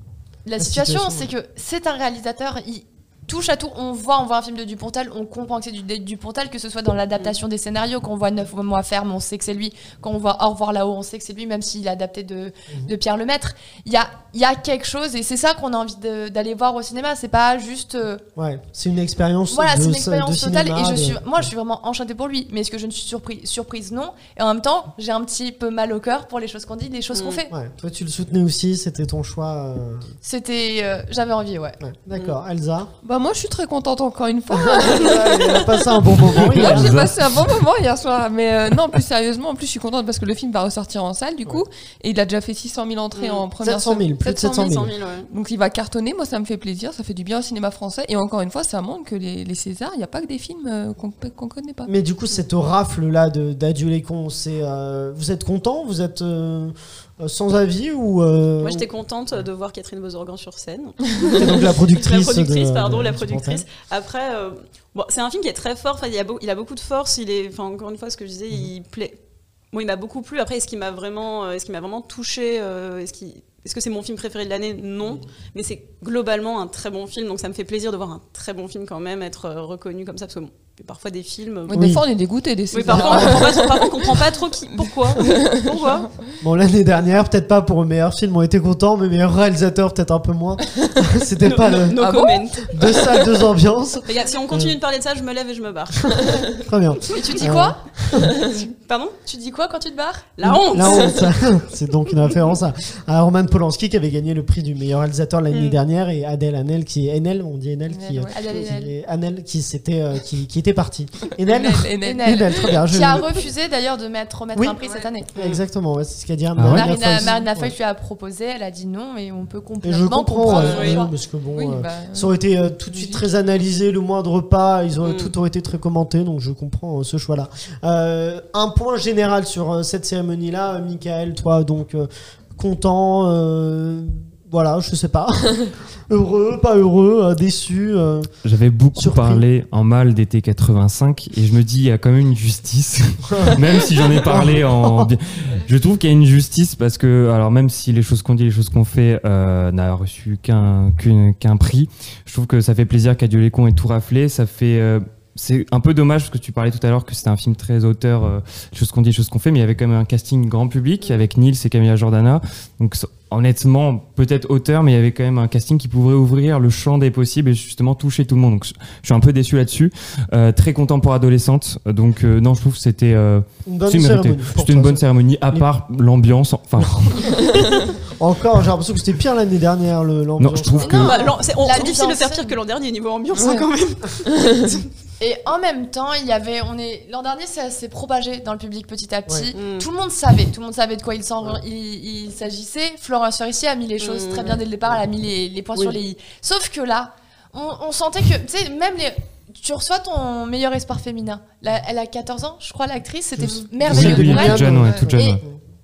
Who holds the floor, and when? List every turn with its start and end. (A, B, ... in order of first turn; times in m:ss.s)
0:00.4-0:18.2 A
0:00.6-0:01.3 B
0:18.4-0:21.5 B
0:19.5-0:27.5 A
0:27.1-0:27.4 C
0:27.5-0:30.1 B
0:30.2-0:31.8 A
0:31.8-0:32.9 B
0:33.0-0:44.7 D
0:34.5-0:36.9 B
0:36.5-0:37.2 E
0:43.1-0:43.4 C
0:43.6-0:44.9 B
0:44.5-0:45.3 C
0:45.3-0:51.9 D
0:51.9-0:58.8 B
0:58.6-1:09.2 C
1:01.4-1:03.6 B
1:09.7-1:21.9 C
1:21.7-1:24.2 D
1:21.7-1:22.0 B
1:22.7-1:26.1 C
1:22.8-1:23.6 B
1:24.7-1:25.7 D
1:26.4-1:32.0 B
1:31.4-1:33.1 C
1:32.0-1:32.7 D
1:32.7-1:34.8 B
1:34.0-1:36.4 C
1:36.1-1:38.3 B
1:37.1-1:37.8 A
1:38.5-1:39.2 C
1:39.2-1:40.2 A
1:40.4-1:41.3 C
1:40.4-1:53.3 B
1:45.5-1:45.8 C
1:47.9-1:48.6 D
1:48.3-1:48.9 A
1:51.4-1:52.8 D
1:52.0-1:55.3 A
1:54.7-1:55.6 C
1:55.3-1:57.7 B
1:56.6-1:56.9 E
1:56.7-1:57.5 D
1:56.8-2:01.1 A
1:59.8-2:18.3 B
2:00.4-2:01.0 C
2:01.5-2:03.2 D
2:05.0-2:05.3 C
2:18.4-2:57.6 E
2:19.0-2:19.4 B
2:23.3-2:25.1 B
2:53.6-2:55.6 B
2:56.8-3:01.2 B
3:00.4-3:01.1 E
3:00.8-3:02.6 A
3:01.0-3:04.8 C
3:03.3-3:03.6 D
3:04.3-3:04.7 D
3:05.2-3:25.4 A
3:09.5-3:09.9 C
3:14.0-3:14.6 C
3:23.4-3:25.6 B
3:23.9-3:25.4 E